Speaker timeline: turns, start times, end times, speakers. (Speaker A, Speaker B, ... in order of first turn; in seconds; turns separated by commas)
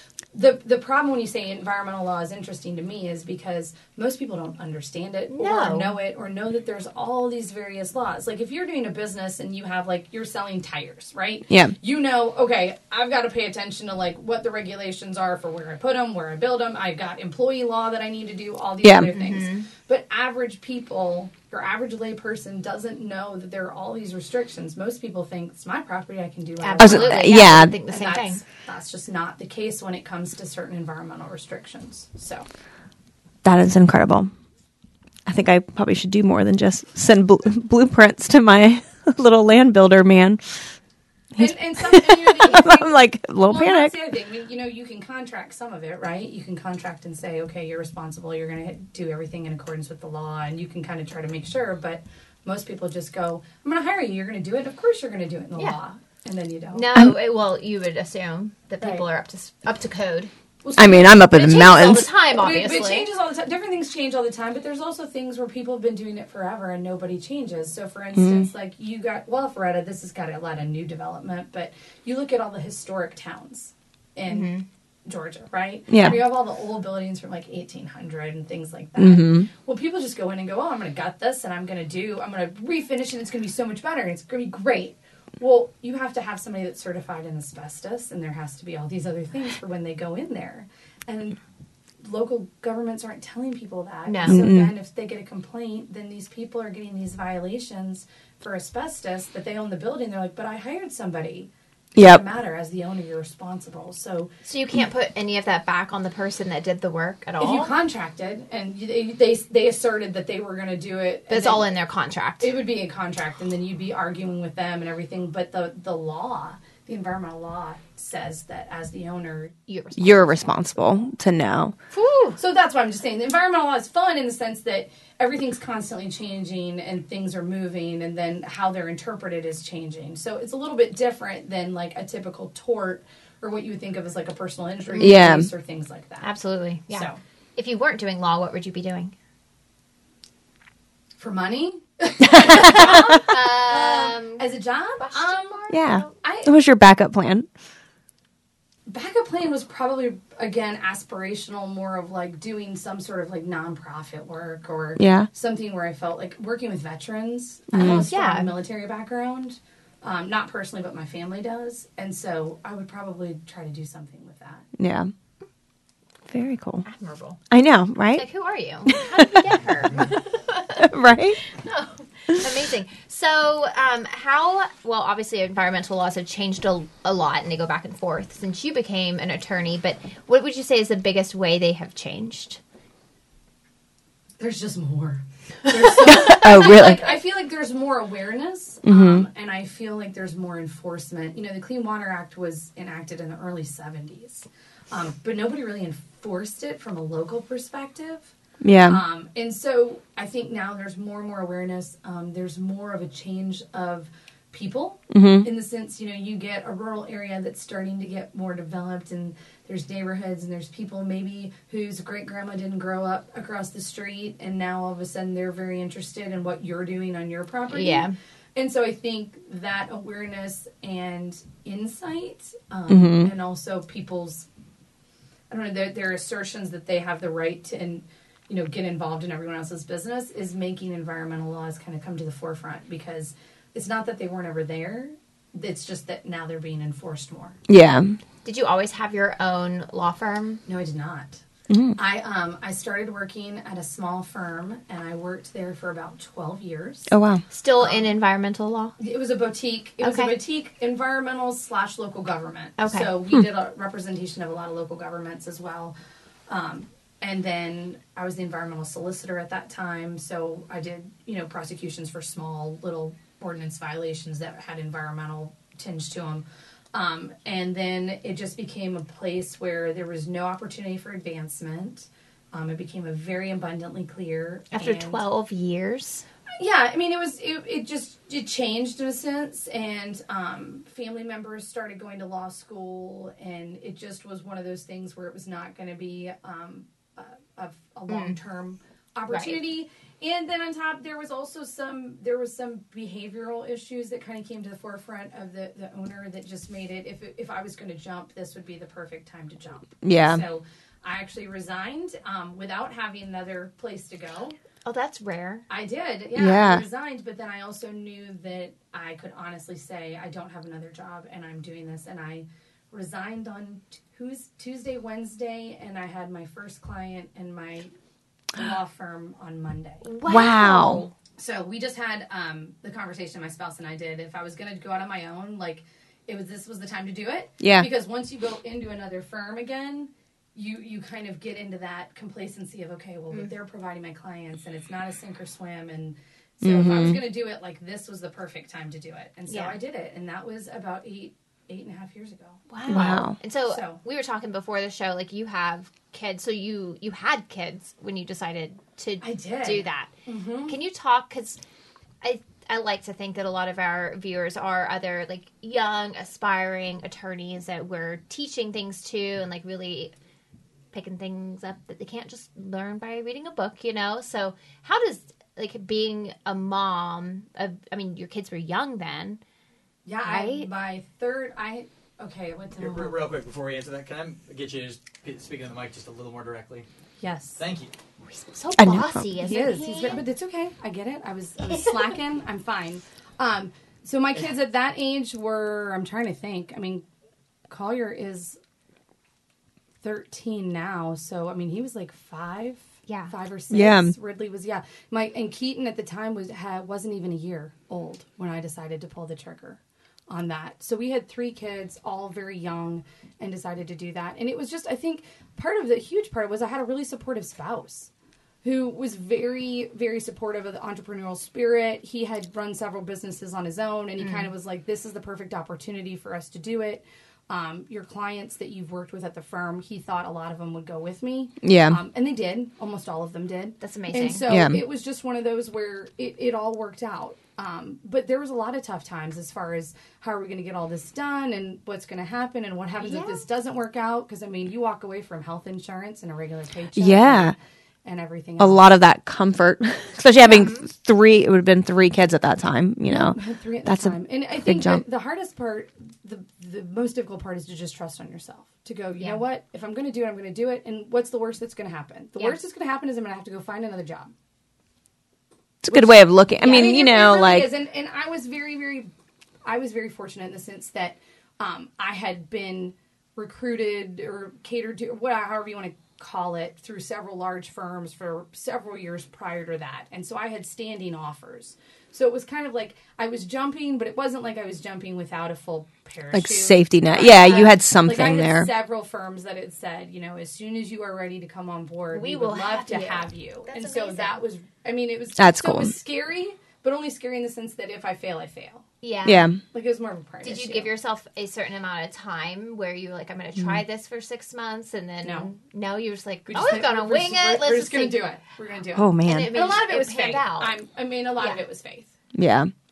Speaker A: 0.3-32.5, Speaker B: 5.3-5.9, Speaker C: 11.5-11.7, Speaker C: 18.8-19.1, Speaker B: 19.1-19.7, Speaker B: 26.6-28.4, Speaker C: 26.8-27.7, Speaker C: 33.4-34.3, Speaker C: 35.2-40.8, Speaker C: 41.3-43.9, Speaker A: 41.4-56.9, Speaker B: 56.7-60.3, Speaker A: 58.8-59.0, Speaker A: 60.6-61.2, Speaker C: 60.8-62.1, Speaker B: 61.2-63.1, Speaker A: 62.3-74.5, Speaker C: 68.1-68.5, Speaker B: 74.3-74.6, Speaker A: 75.0-91.4, Speaker C: 75.9-76.2, Speaker C: 79.0-79.5, Speaker A: 92.0-104.3, Speaker B: 94.0-94.4, Speaker C: 94.2-94.7, Speaker C: 102.0-102.2, Speaker B: 104.4-107.7, Speaker A: 107.4-111.7, Speaker B: 111.3-112.5, Speaker A: 112.4-119.5, Speaker B: 119.7-120.6, Speaker C: 120.0-121.7, Speaker B: 121.9-122.4, Speaker A: 122.4-136.3, Speaker B: 134.9-135.3, Speaker C: 135.0-135.5, Speaker B: 136.2-139.1, Speaker A: 136.9-137.2, Speaker A: 141.2-146.5, Speaker C: 142.2-143.2, Speaker B: 142.6-144.4, Speaker B: 145.0-146.1, Speaker C: 145.7-147.5, Speaker A: 148.9-164.7, Speaker C: 155.0-155.3, Speaker C: 157.7-158.1, Speaker B: 157.8-158.6, Speaker C: 164.8-165.1, Speaker C: 166.3-166.8, Speaker B: 166.8-167.4, Speaker C: 167.5-168.2, Speaker B: 168.1-182.6, Speaker C: 168.9-169.3, Speaker C: 170.8-171.4, Speaker A: 184.4-198.3, Speaker C: 186.1-187.0, Speaker B: 186.3-186.9, Speaker C: 188.8-189.2, Speaker C: 198.6-199.0, Speaker A: 198.8-224.5, Speaker C: 205.1-205.4, Speaker B: 217.7-218.1, Speaker C: 222.9-223.3, Speaker A: 225.5-237.6, Speaker C: 237.7-238.2, Speaker B: 238.4-240.6, Speaker A: 240.7-241.4, Speaker C: 241.7-242.0, Speaker A: 241.9-247.1, Speaker C: 247.1-247.4, Speaker B: 247.5-248.9, Speaker A: 247.8-248.1, Speaker A: 249.0-255.9, Speaker B: 250.0-250.3, Speaker B: 252.8-253.1, Speaker A: 256.5-275.2, Speaker B: 274.7-276.3, Speaker A: 276.6-304.6, Speaker B: 288.1-288.4, Speaker B: 289.3-289.6, Speaker C: 300.0-300.4, Speaker B: 304.8-305.6, Speaker A: 305.7-317.9, Speaker C: 306.4-306.8, Speaker A: 318.5-320.1, Speaker B: 320.1-321.1, Speaker C: 320.2-321.1, Speaker A: 321.4-342.6, Speaker C: 327.6-327.9, Speaker C: 336.6-337.2, Speaker B: 339.5-339.8, Speaker B: 342.7-350.1, Speaker C: 342.9-343.4, Speaker A: 343.6-344.0, Speaker A: 349.2-350.7, Speaker B: 350.7-351.6, Speaker B: 352.2-360.1, Speaker B: 360.9-369.4, Speaker A: 370.1-373.2, Speaker B: 370.2-370.7, Speaker D: 372.8-376.9, Speaker A: 377.2-377.6, Speaker D: 377.6-377.9, Speaker B: 378.3-380.2, Speaker C: 378.8-379.3, Speaker A: 379.4-387.0, Speaker A: 387.7-388.6, Speaker A: 390.0-408.1, Speaker B: 393.1-393.3, Speaker C: 393.7-394.1, Speaker A: 408.6-438.8, Speaker B: 414.2-414.5, Speaker C: 421.6-422.0, Speaker B: 423.8-424.4, Speaker C: 424.5-424.8, Speaker B: 433.0-433.4, Speaker C: 436.9-437.5, Speaker C: 438.6-445.0, Speaker B: 440.5-440.8, Speaker A: 443.1-454.3, Speaker C: 455.8-457.7, Speaker A: 455.9-459.1, Speaker A: 459.6-488.8, Speaker C: 476.3-478.7, Speaker B: 482.1-484.4, Speaker C: 485.4-485.9, Speaker B: 489.0-489.5, Speaker C: 489.2-489.6, Speaker A: 489.7-490.9, Speaker B: 490.4-498.2, Speaker A: 495.2-495.5, Speaker A: 496.5-502.1, Speaker C: 498.9-499.5, Speaker B: 499.2-500.7, Speaker C: 502.3-502.7